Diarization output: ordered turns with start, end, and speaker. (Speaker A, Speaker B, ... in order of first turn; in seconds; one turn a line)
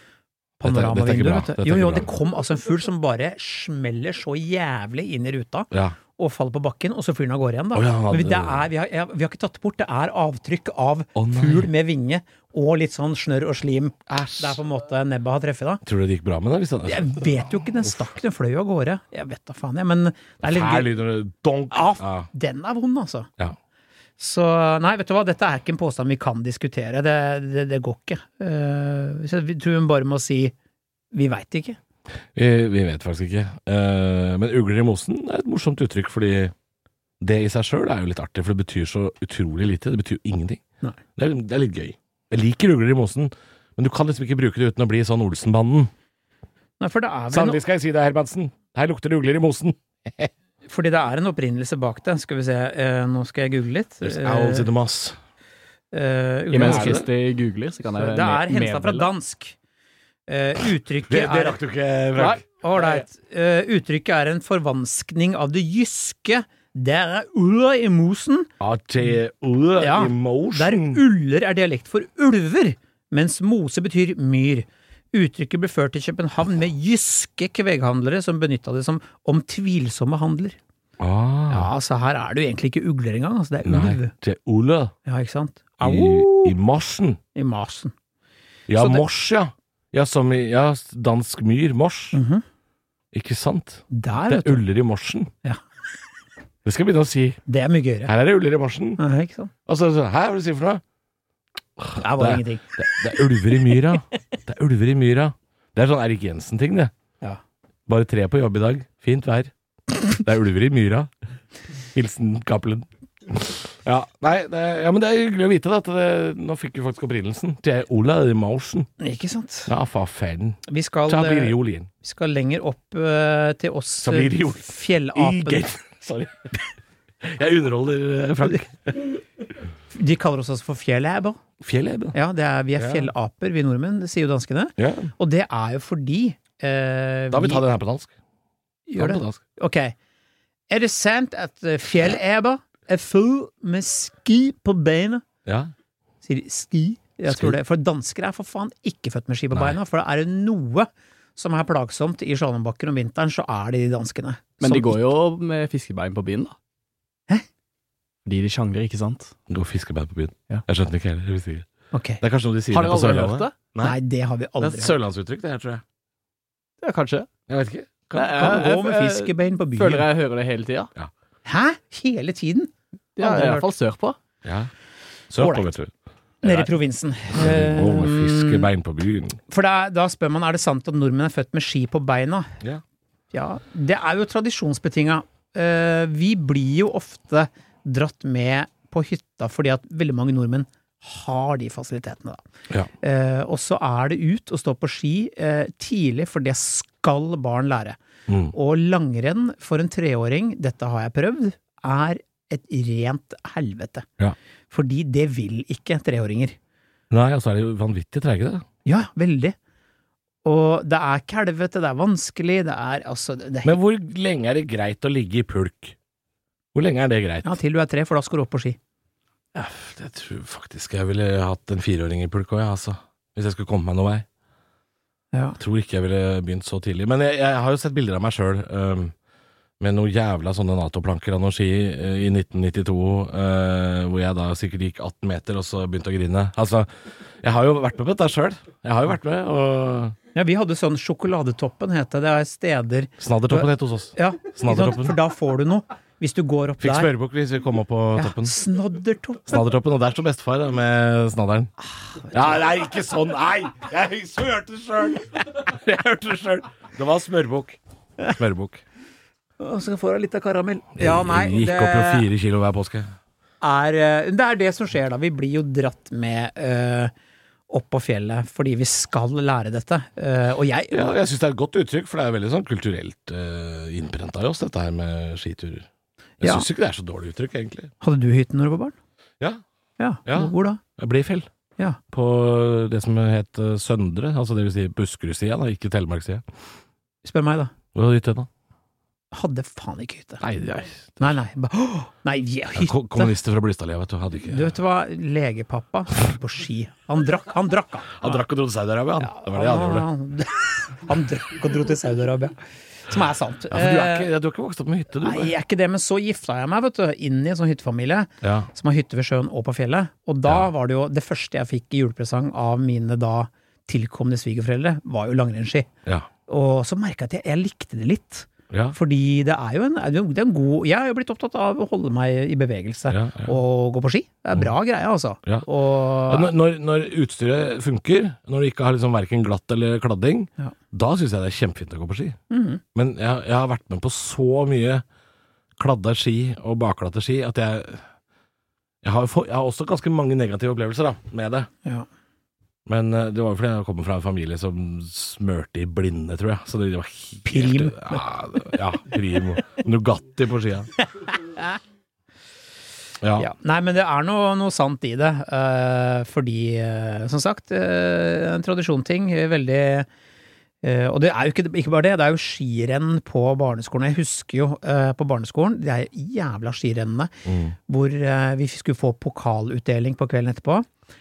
Speaker A: 0.6-15.8
Speaker B: 0.6-2.1
Speaker B: 5.7-6.0
Speaker B: 7.7-8.7
Speaker B: 11.2-11.7
Speaker B: 14.1-14.6
Speaker B: 15.8-17.3
Speaker A: 16.9-20.9
Speaker B: 20.4-22.3
Speaker A: 21.7-23.3
Speaker A: 24.2-30.5
Speaker A: 31.1-31.8
Speaker B: 32.3-36.5
Speaker B: 37.2-40.6
Speaker B: 41.2-45.9
Speaker A: 46.8-47.6
Speaker B: 47.3-50.3
Speaker A: 50.7-54.7
Speaker B: 54.0-55.2
Speaker A: 55.9-57.0
Speaker C: 56.5-59.1
Speaker B: 56.6-57.1
Speaker A: 58.0-59.6
Speaker A: 60.3-61.6
Speaker B: 61.1-62.4
Speaker A: 62.2-68.5
Speaker B: 68.6-71.0
Speaker A: 69.8-80.6
Speaker B: 81.0-81.7
Speaker A: 81.5-84.1
Speaker B: 83.6-84.9
Speaker A: 85.1-86.6
Speaker B: 85.8-87.2
Speaker A: 87.3-87.9
Speaker B: 88.7-92.2
Speaker A: 88.8-89.0
Speaker A: 92.1-92.4
Speaker B: 93.1-95.3
Speaker A: 93.9-94.6
Speaker B: 96.7-97.4
Speaker A: 97.5-98.1
Speaker B: 98.1-99.0
Speaker A: 99.0-99.5
Speaker B: 99.7-100.8
Speaker B: 101.8-106.9
Speaker A: 102.0-103.3
Speaker B: 107.9-109.5
Speaker B: 110.1-111.1
Speaker B: 111.9-118.9
Speaker A: 119.0-119.7
Speaker B: 119.7-121.9
Speaker A: 120.7-125.7
Speaker B: 124.0-126.6
Speaker B: 127.2-129.2
Speaker A: 129.9-131.4
Speaker B: 131.6-132.2
Speaker A: 132.1-137.7
Speaker B: 132.8-133.1
Speaker B: 134.8-135.1
Speaker B: 137.3-138.1
Speaker A: 138.9-139.9
Speaker B: 139.0-139.4
Speaker A: 140.7-145.2
Speaker B: 145.5-145.7
Speaker A: 146.2-155.0
Speaker B: 147.3-147.6
Speaker B: 149.5-149.8
Speaker C: 154.6-156.6
Speaker C: 158.2-159.3
Speaker B: 159.5-161.7
Speaker A: 161.9-162.2
Speaker B: 162.2-164.0
Speaker C: 162.7-163.6
Speaker A: 163.8-164.9
Speaker B: 164.6-165.8
Speaker C: 166.8-167.3
Speaker B: 167.5-168.6
Speaker C: 168.1-170.9
Speaker A: 168.4-170.1
Speaker A: 171.4-173.7
Speaker C: 173.2-174.2
Speaker B: 174.4-174.7
Speaker B: 175.3-175.9
Speaker A: 175.4-175.7
Speaker B: 176.4-176.7
Speaker A: 176.4-178.7
Speaker B: 177.3-179.4
Speaker A: 179.5-182.6
Speaker A: 183.3-192.4
Speaker A: 193.0-198.0
Speaker B: 198.3-198.6
Speaker A: 198.5-204.1
Speaker A: 204.7-206.6
Speaker B: 207.1-208.7
Speaker A: 208.8-209.6
Speaker A: 210.4-213.8
Speaker B: 213.6-216.0
Speaker B: 216.7-217.6
Speaker A: 217.4-218.8
Speaker B: 219.6-224.3
Speaker A: 225.3-225.6
Speaker B: 225.6-229.1
Speaker B: 229.8-236.9
Speaker B: 237.4-240.2
Speaker A: 240.3-247.1
Speaker B: 243.2-245.2
Speaker B: 246.8-248.6
Speaker A: 248.2-249.6
Speaker B: 249.5-251.7
Speaker A: 252.0-252.7
Speaker B: 252.3-257.8
Speaker B: 258.3-258.8
Speaker A: 259.6-262.3
Speaker B: 261.0-263.1
Speaker A: 263.6-267.1
Speaker A: 267.7-271.2
Speaker B: 270.9-275.9
Speaker B: 276.4-277.9
Speaker A: 276.4-276.7
Speaker A: 278.0-278.9
Speaker A: 280.0-280.8
Speaker B: 280.3-281.5
Speaker B: 282.1-286.4
Speaker A: 287.2-287.7
Speaker B: 287.9-288.5
Speaker A: 289.3-290.4
Speaker B: 290.4-291.4
Speaker A: 291.2-293.3
Speaker B: 292.8-294.7
Speaker A: 294.5-298.4
Speaker B: 298.1-300.1
Speaker A: 299.2-304.3
Speaker B: 303.7-305.5
Speaker A: 305.2-315.9
Speaker B: 308.4-308.7
Speaker A: 316.5-326.5
Speaker B: 318.7-319.0
Speaker B: 323.1-323.5
Speaker B: 326.3-332.4
Speaker A: 332.5-332.8
Speaker B: 332.9-335.0
Speaker B: 335.8-338.1
Speaker B: 339.0-341.7
Speaker B: 342.9-350.9
Speaker A: 347.5-348.2
Speaker A: 351.3-351.8
Speaker B: 353.2-353.5
Speaker A: 353.4-360.1
Speaker A: 360.8-367.3
Speaker B: 367.4-367.8
Speaker A: 367.9-370.9